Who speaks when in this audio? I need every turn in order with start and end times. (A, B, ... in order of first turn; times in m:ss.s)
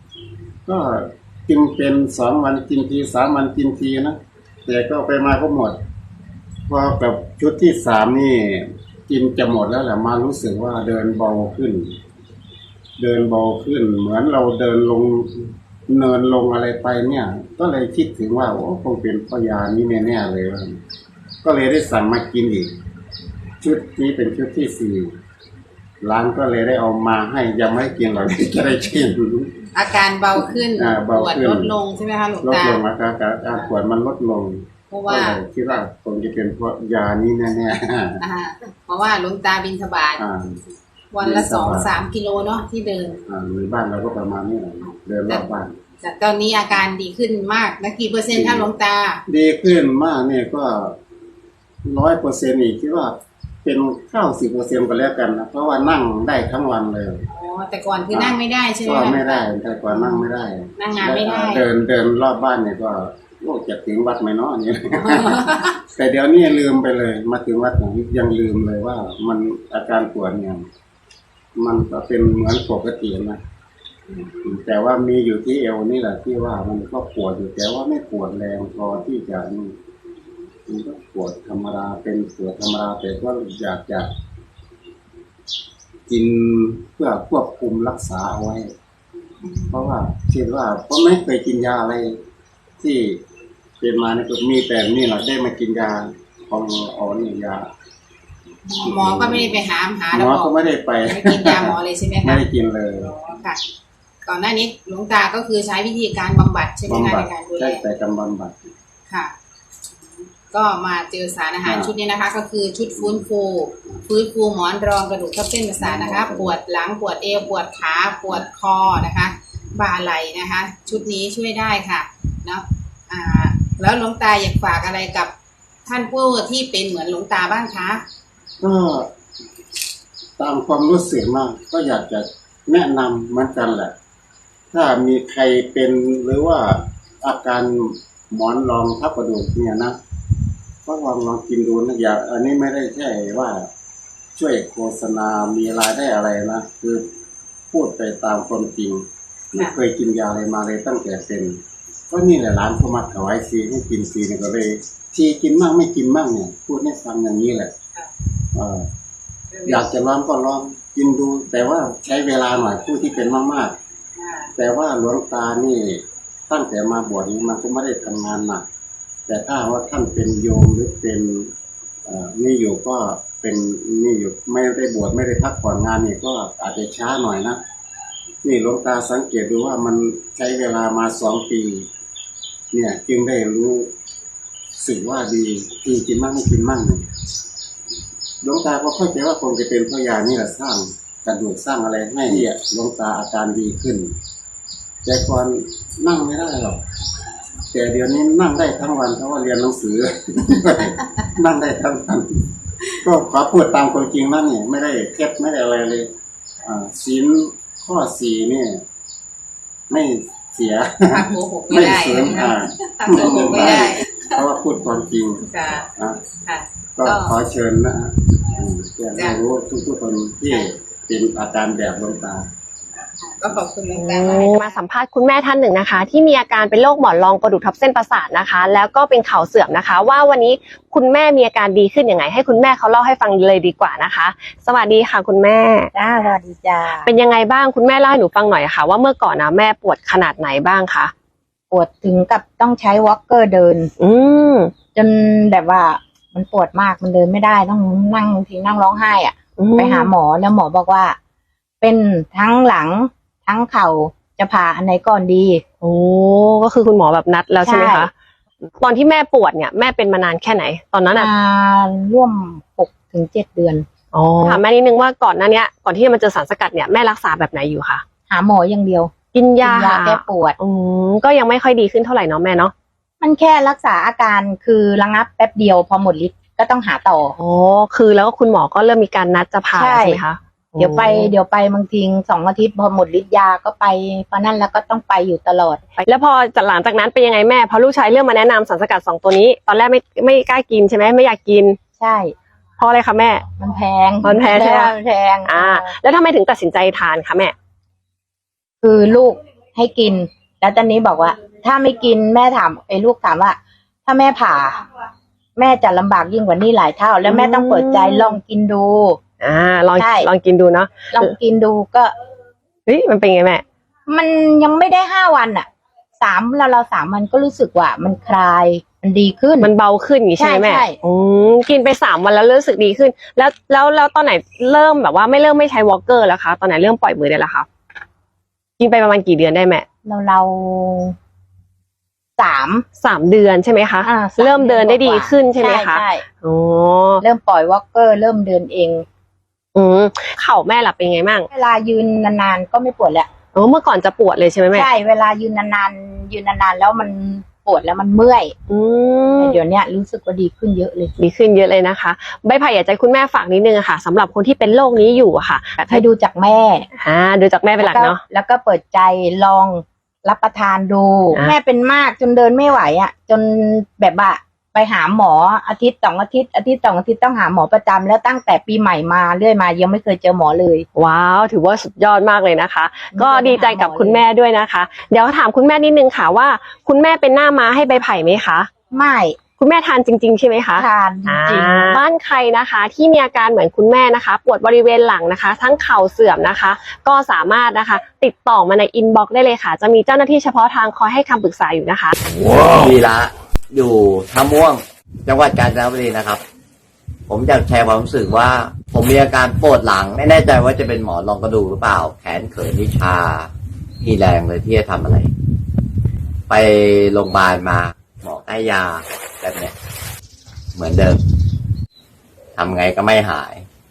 0:00.7-0:05.8 A
0:06.7-0:11.9 A
0:13.0-0:20.8 A
0:21.4-0:22.7 A
0:23.6-0:25.1 A
0:26.0-0:29.6 A
0:29.8-0:32.8 B
0:30.7-0:31.8 A
0:32.4-0:38.2 A
0:34.9-0:35.4 B
0:38.2-0:40.2 B
0:40.2-0:40.6 A
0:41.1-0:43.2 B
0:41.2-0:41.9 A
0:43.3-0:45.8 A
0:46.0-0:49.2 B
0:48.3-0:48.7 A
0:49.3-0:51.0 A
0:51.9-0:57.2 A
0:57.3-1:00.2 B
0:58.1-1:10.7 A
1:00.8-1:01.6 B
1:11.6-1:13.4 A
1:14.4-1:19.7 A
1:20.7-1:24.1 A
1:26.1-1:28.7 A
1:29.4-1:29.9 B
1:29.7-1:32.2 A
1:32.8-1:33.2 A
1:33.8-1:37.7 A
1:38.7-1:40.5 B
1:38.8-1:39.6 A
1:40.1-1:43.1 A
1:41.1-1:42.5 B
1:43.0-1:43.6 B
1:44.2-1:47.8 B
1:46.9-1:48.7 A
1:49.1-1:49.3 B
1:50.5-2:05.3 B
1:51.6-1:51.9 A
1:55.8-1:56.6 A
2:05.9-2:08.0 B
2:08.6-2:09.1 A
2:10.4-2:13.9 A
2:14.7-2:20.0 A
2:20.8-2:23.7 A
2:24.4-2:27.0 A
2:27.7-2:37.7 A
2:38.5-2:38.9 A
2:39.5-2:39.8 B
2:39.7-2:43.8 A
2:44.2-2:44.5 B
2:44.6-2:48.6 A
2:49.3-2:51.5 A
2:52.1-2:57.6 A
2:58.4-3:01.9 A
3:02.7-3:03.9 A
3:04.8-3:07.1 A
3:08.4-3:14.1 A
3:15.0-3:16.8 A
3:17.7-3:22.4 A
3:23.0-3:26.1 A
3:26.6-3:28.8 A
3:29.9-3:35.4 A
3:31.1-3:34.4 B
3:35.4-3:35.9 B
3:36.0-3:36.2 A
3:36.4-3:37.4 B
3:37.0-3:42.5 A
3:43.2-3:44.8 B
3:43.9-3:55.9 C
3:55.9-3:57.1 D
3:57.0-4:01.1 C
4:01.7-4:03.9 D
4:04.0-4:04.7 C
4:05.0-4:11.2 D
4:09.6-4:10.1 C
4:11.8-4:15.6 D
4:15.8-4:18.1 C
4:17.6-4:18.1 D
4:18.7-4:21.3 C
4:21.1-4:23.8 D
4:24.1-4:28.0 C
4:28.3-4:30.6 D
4:29.3-4:32.7 C
4:33.2-4:37.4 D
4:37.4-4:41.3 C
4:39.8-4:40.2 D
4:40.8-4:45.8 D
4:46.0-4:51.8 C
4:52.0-4:52.3 D
4:52.8-4:53.5 C
4:53.6-4:56.0 D
4:54.2-4:57.5 C
4:58.8-5:04.8 D
5:05.6-5:09.2 D
5:07.2-5:08.4 C
5:09.4-5:11.3 C
5:10.0-5:10.3 D
5:11.1-5:12.1 D
5:12.9-5:13.6 C
5:14.1-5:15.7 D
5:16.2-5:19.7 D
5:19.6-5:27.7 C
5:20.4-5:21.0 D
5:28.8-5:29.8 C
5:30.0-5:31.2 D
5:32.4-5:32.8 D
5:33.0-5:37.2 C
5:34.0-5:36.2 D
5:37.2-5:39.1 D
5:39.8-5:41.5 C
5:41.5-5:43.3 D
5:43.5-5:44.9 C
5:44.7-5:48.6 D
5:48.7-5:49.6 C
5:49.4-5:51.2 D
5:51.2-5:56.0 C
5:55.9-5:56.9 D
5:57.0-5:58.2 C
5:57.8-6:10.9 D
6:11.0-6:18.7 C
6:13.1-6:14.2 D
6:18.9-6:19.4 D
6:19.6-6:32.2 C
6:20.8-6:22.0 D
6:32.3-6:36.4 E
6:37.3-6:45.3 E
6:46.5-6:49.7 E
6:50.8-6:51.2 E
6:52.6-6:53.6 E